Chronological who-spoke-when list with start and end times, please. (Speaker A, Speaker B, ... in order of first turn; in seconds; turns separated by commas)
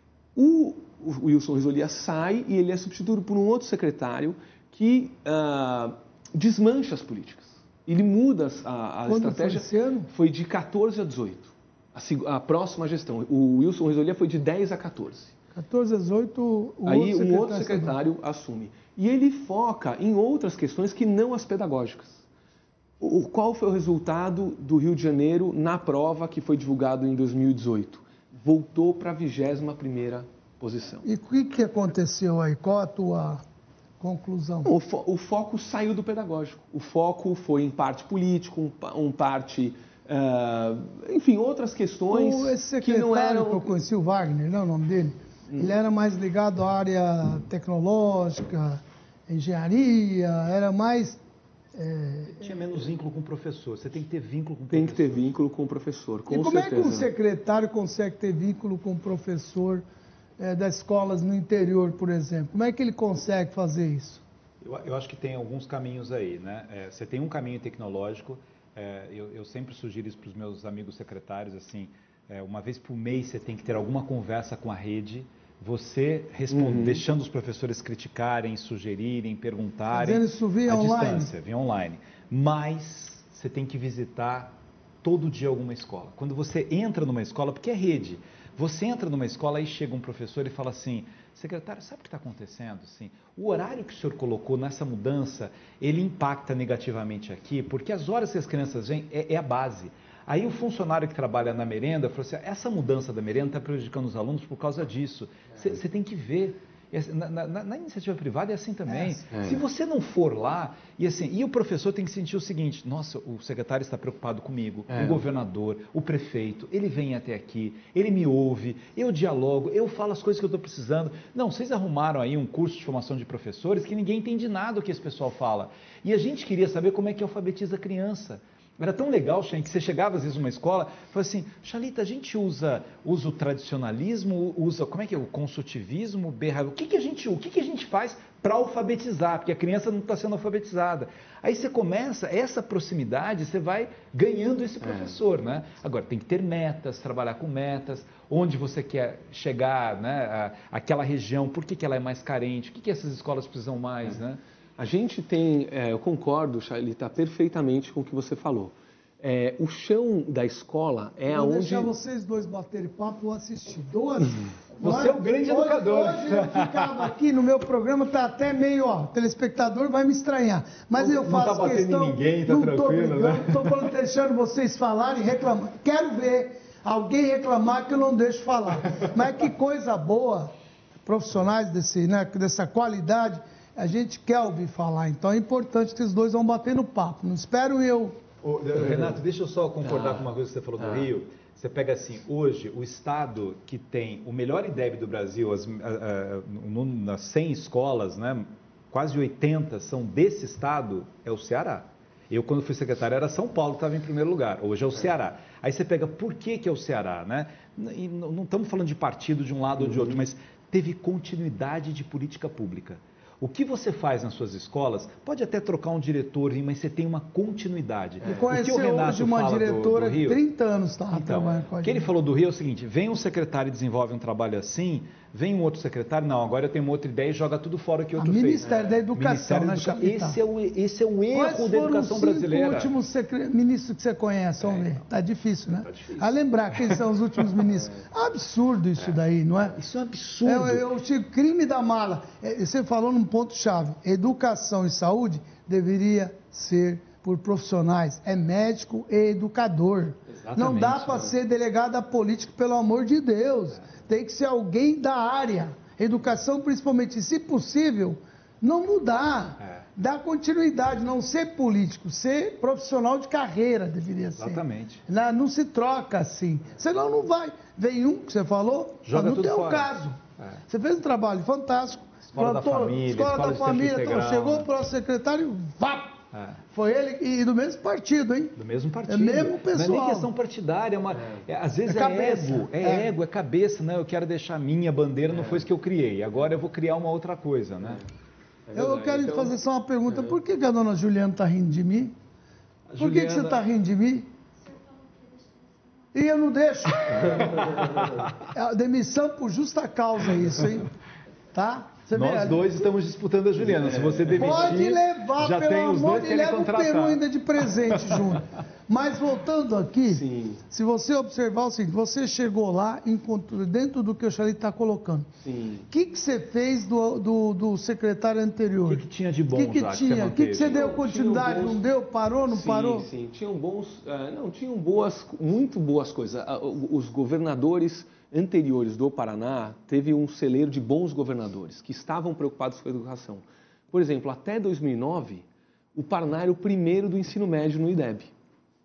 Speaker A: 0.4-15.3, Speaker B: 9.1-10.1, Speaker B: 15.6-17.9, Speaker A: 16.9-22.2, Speaker A: 23.0-31.1, Speaker B: 31.0-33.4, Speaker B: 34.0-34.7, Speaker A: 34.6-43.8, Speaker B: 42.1-51.2, Speaker B: 51.7-52.5, Speaker C: 52.3-55.3, Speaker A: 54.7-57.1, Speaker B: 56.3-59.8, Speaker B: 60.4-64.2, Speaker C: 64.6-154.4, Speaker A: 76.5-77.0, Speaker B: 79.9-81.3, Speaker B: 108.9-109.2, Speaker A: 109.3-109.6, Speaker A: 114.9-115.2, Speaker A: 154.8-161.9, Speaker B: 161.3-180.5, Speaker C: 164.8-167.1, Speaker C: 170.9-173.8, Speaker B: 181.1-188.2, Speaker C: 188.4-220.4, Speaker A: 188.8-189.2, Speaker A: 189.8-190.3, Speaker A: 190.8-191.1, Speaker B: 218.2-222.1, Speaker C: 221.1-232.9, Speaker B: 228.2-230.4, Speaker A: 228.6-229.0, Speaker B: 231.3-239.8, Speaker C: 235.8-236.3, Speaker C: 239.7-240.9, Speaker B: 240.4-276.2, Speaker C: 250.3-251.3, Speaker C: 264.4-265.0, Speaker C: 269.1-270.5, Speaker C: 272.3-274.7, Speaker C: 276.3-276.6, Speaker B: 276.7-280.3, Speaker C: 278.6-288.0, Speaker A: 281.2-281.4, Speaker B: 281.9-283.1, Speaker A: 285.3-285.6, Speaker A: 288.7-289.6, Speaker B: 288.7-292.1, Speaker C: 292.9-293.6, Speaker B: 293.0-294.3, Speaker B: 296.1-297.5, Speaker A: 297.3-298.1, Speaker C: 297.6-298.3, Speaker B: 298.5-300.9, Speaker B: 301.5-302.8, Speaker C: 302.1-307.2, Speaker A: 303.7-304.6, Speaker B: 304.4-315.3, Speaker A: 310.1-310.6, Speaker A: 315.4-315.9, Speaker B: 315.9-323.1, Speaker C: 318.8-320.8, Speaker A: 320.6-321.8, Speaker A: 322.5-338.3